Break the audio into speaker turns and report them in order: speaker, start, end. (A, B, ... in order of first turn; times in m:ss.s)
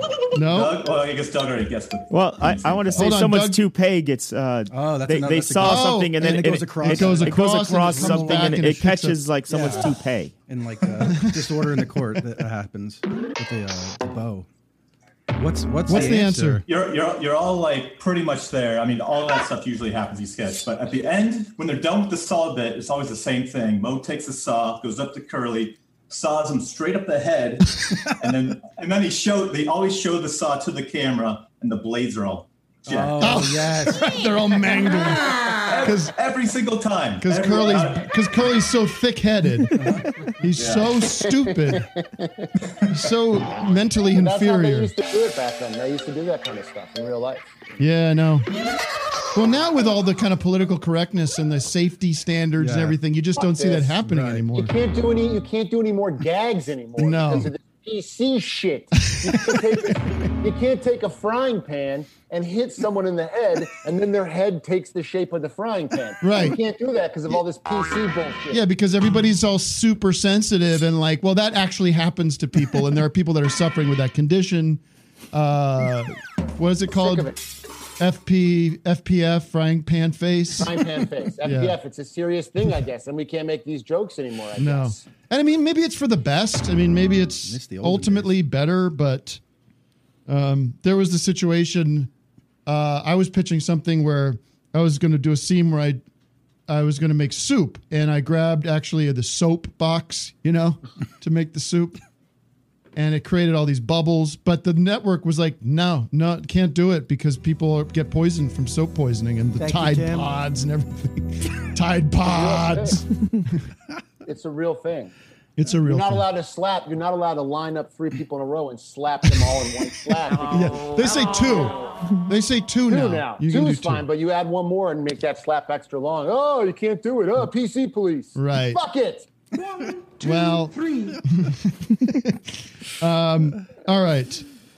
0:00.3-0:00.8 A
0:00.4-0:03.2 B
0:02.1-0:10.3 C
0:03.0-0:03.6 A
0:04.7-0:08.7 D
0:05.6-0:09.2 A
0:09.5-0:09.9 D
0:10.5-0:14.5 D
0:11.0-0:11.6 A
0:15.4-0:16.7 D
0:15.9-0:16.6 A
0:16.7-0:33.3 B
0:32.9-0:34.0 D
0:33.2-0:36.1 A
0:35.6-0:38.1 B
0:37.2-0:39.8 A
0:39.8-0:40.1 D
0:40.4-0:41.9 A
0:40.6-0:40.9 B
0:41.2-0:42.5 E
0:42.9-0:44.9 A
0:44.2-0:47.8 E
0:47.8-0:48.5 A
0:49.3-0:54.7 A
0:52.6-0:53.0 D
0:53.4-0:54.0 E
0:54.0-0:54.5 D
0:54.5-1:08.6 E
0:57.0-0:57.5 A
0:59.0-0:59.8 A
1:06.2-1:06.6 A
1:08.5-1:14.8 A
1:15.3-1:17.3 A
1:16.9-1:17.4 E
1:18.0-1:20.8 A
1:20.6-1:25.0 E
1:21.4-1:21.8 A
1:24.6-1:29.4 A
1:27.4-1:28.3 D
1:30.3-1:32.1 A
1:32.7-1:36.0 A
1:36.7-1:42.0 A
1:43.0-1:53.6 A
1:52.3-1:53.0 E
1:54.2-1:55.1 E
1:55.6-1:56.3 A
1:55.8-2:00.8 E
2:00.5-2:04.1 A
2:02.9-2:09.3 E
2:08.4-2:08.8 A
2:10.2-2:14.5 A